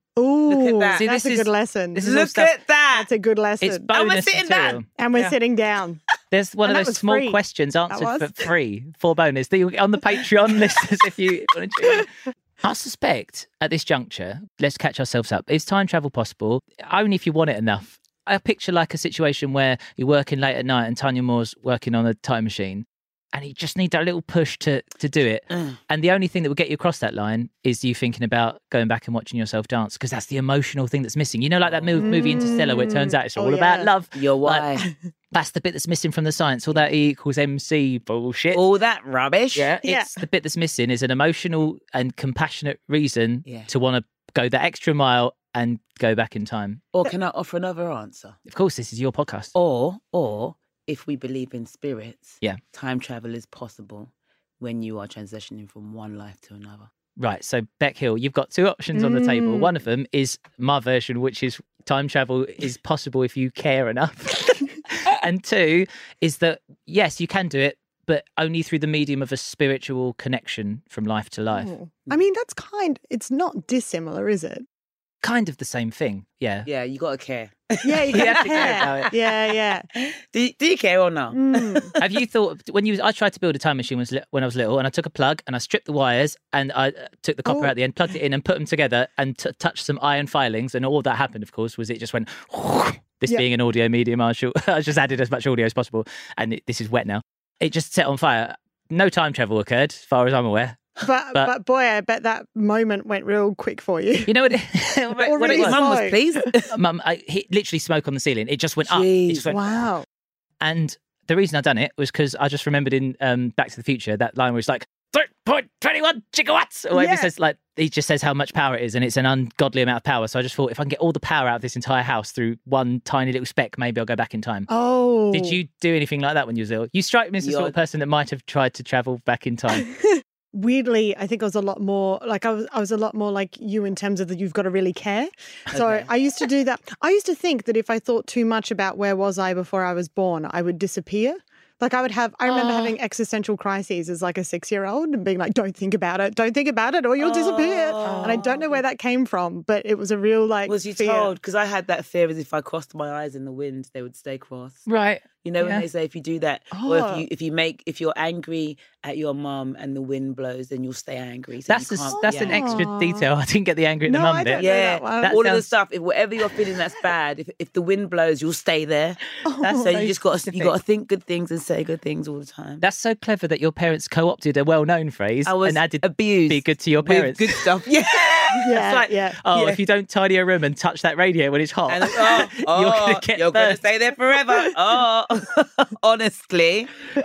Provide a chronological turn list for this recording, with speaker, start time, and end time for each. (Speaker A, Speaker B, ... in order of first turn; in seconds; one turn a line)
Speaker A: 0.2-2.1
Speaker B: 0.5-1.0
Speaker C: 1.0-2.5
Speaker B: 2.0-3.1
Speaker A: 2.9-3.9
Speaker C: 3.6-5.3
Speaker B: 3.9-4.8
Speaker A: 5.0-6.0
Speaker C: 6.3-12.1
Speaker A: 6.6-7.4
Speaker A: 7.9-8.5
Speaker C: 12.6-34.7
Speaker B: 25.5-25.8
Speaker B: 31.6-32.0
Speaker A: 32.0-33.9
Speaker B: 34.1-34.8
Speaker C: 35.3-38.6
Speaker B: 38.5-39.7
Speaker C: 39.5-46.9
Speaker A: 39.8-40.2
Speaker B: 46.9-48.4
Speaker C: 48.5-49.5
Speaker B: 49.5-56.9
Speaker C: 57.2-71.7
Speaker A: 59.0-59.7
Speaker A: 71.5-74.7
Speaker C: 75.2-76.7
Speaker B: 76.7-79.2
Speaker A: 77.8-79.9
Speaker C: 78.1-79.1
Speaker B: 80.0-82.1
Speaker A: 81.3-81.9
Speaker C: 82.0-101.5
Speaker A: 87.5-87.7
Speaker A: 101.0-104.3
Speaker C: 104.3-105.8
Speaker B: 105.2-106.7
Speaker A: 105.2-106.2
Speaker C: 106.7-109.7
Speaker B: 108.8-109.7
Speaker A: 109.5-110.0
Speaker C: 110.6-124.7
Speaker A: 116.9-117.3
Speaker A: 124.7-125.6
Speaker C: 125.3-129.9
Speaker B: 127.4-127.7
Speaker A: 130.0-151.3
Speaker B: 135.7-136.1
Speaker B: 147.2-148.8
Speaker C: 148.0-148.4
Speaker B: 150.7-154.8
Speaker C: 154.9-155.9
Speaker B: 155.4-162.8
Speaker A: 156.7-157.2
Speaker C: 161.7-164.6
Speaker A: 162.1-163.3
Speaker A: 164.1-165.4
Speaker B: 164.6-169.2
Speaker C: 165.2-165.7
Speaker A: 169.4-169.9
Speaker C: 169.6-170.8
Speaker B: 169.8-172.8
Speaker C: 172.8-177.7
Speaker B: 175.5-178.8
Speaker A: 178.5-179.7
Speaker C: 178.7-183.8
Speaker B: 181.9-186.9